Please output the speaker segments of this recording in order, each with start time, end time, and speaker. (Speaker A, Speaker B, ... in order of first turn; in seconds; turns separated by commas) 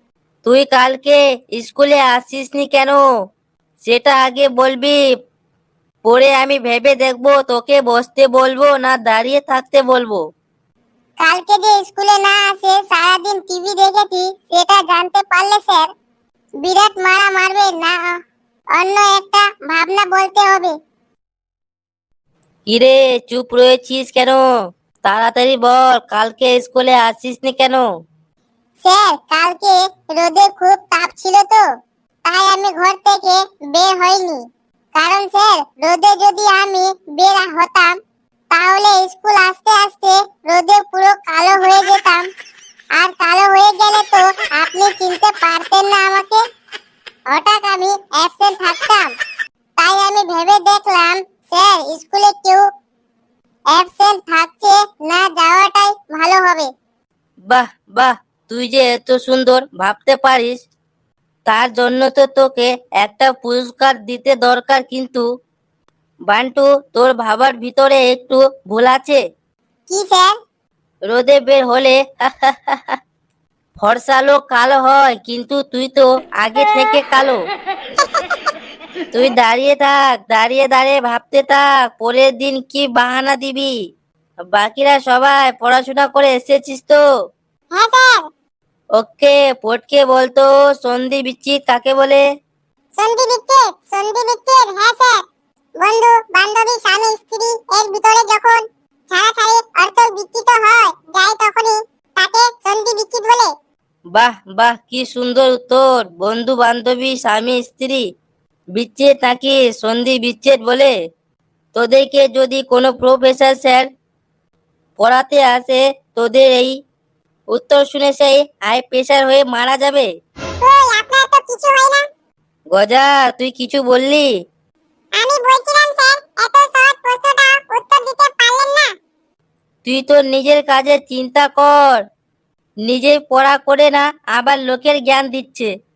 Speaker A: 0.5-3.0, Speaker A: 3.9-5.0, Speaker A: 6.1-10.2, Speaker B: 11.2-15.9, Speaker B: 16.6-18.1, Speaker B: 18.8-20.8, Speaker A: 22.7-24.4, Speaker A: 25.1-27.8, Speaker B: 28.8-31.7, Speaker B: 32.3-38.0, Speaker B: 38.5-42.3, Speaker B: 43.0-46.4, Speaker B: 47.3-49.1, Speaker B: 49.8-52.7, Speaker B: 53.7-56.7, Speaker A: 57.5-60.6, Speaker A: 61.5-65.3, Speaker A: 66.3-69.2, Speaker B: 69.9-70.3, Speaker A: 71.1-73.0, Speaker A: 73.8-77.4, Speaker A: 79.1-83.7, Speaker A: 84.5-87.0, Speaker B: 87.7-88.2, Speaker A: 89.0-92.2, Speaker B: 93.0-95.2, Speaker B: 95.8-103.5, Speaker A: 104.2-108.0, Speaker A: 108.8-110.9, Speaker A: 111.8-113.9, Speaker A: 115.0-116.8, Speaker A: 117.5-120.1, Speaker B: 120.6-122.0, Speaker A: 122.7-124.3, Speaker B: 125.2-128.9, Speaker A: 129.8-132.0, Speaker A: 132.8-135.7